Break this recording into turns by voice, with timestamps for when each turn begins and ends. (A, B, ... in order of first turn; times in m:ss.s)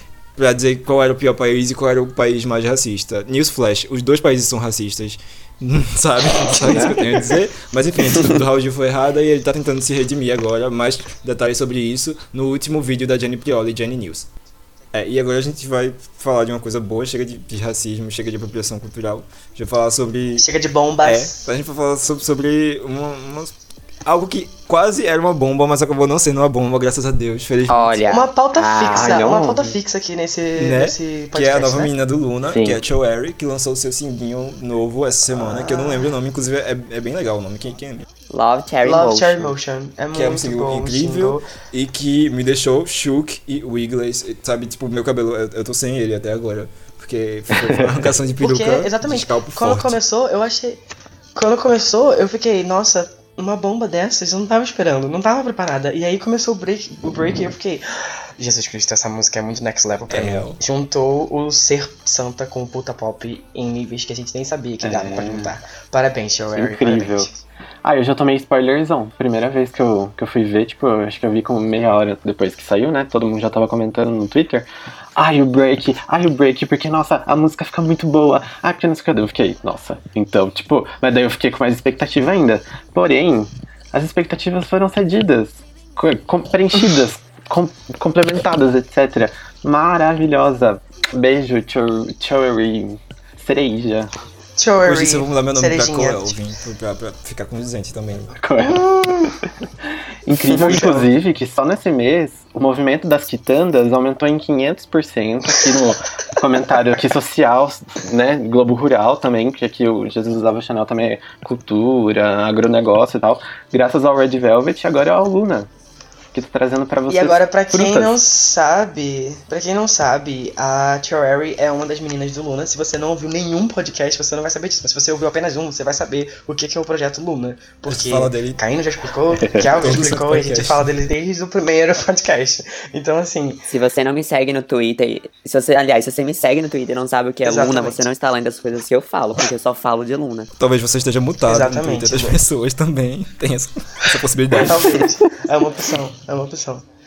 0:00.4-0:14.3 A
0:06.6-0:07.0 B
0:14.9-0:20.5 A
0:20.4-0:21.5 B
0:21.0-0:23.5 A
0:24.0-0:28.1 A
0:27.7-0:29.2 C
0:28.1-0:31.9 B
0:28.9-0:29.8 D
0:30.6-0:38.1 A
0:32.4-0:32.8 D
0:35.3-0:36.1 B
0:38.3-0:39.5 C
0:38.8-0:41.5 B
0:40.1-0:50.0 A
0:47.5-0:48.1 D
0:48.4-0:50.8 B
0:51.4-1:07.4 B
1:00.1-1:00.6 A
1:04.8-1:05.5 D
1:06.6-1:07.3 D
1:07.8-1:34.1 D
1:34.6-1:36.4 B
1:34.8-1:38.3 A
1:38.3-1:39.4 D
1:40.3-1:55.7 D
1:40.5-1:41.1 A
1:56.3-1:58.2 D
1:57.1-2:13.6 B
2:07.9-2:08.6 A
2:09.4-2:09.7 D
2:09.8-2:10.9 A
2:13.7-2:20.5 C
2:17.4-2:18.1 B
2:20.6-2:25.1 A
2:21.4-2:22.4 B
2:24.6-2:26.8 B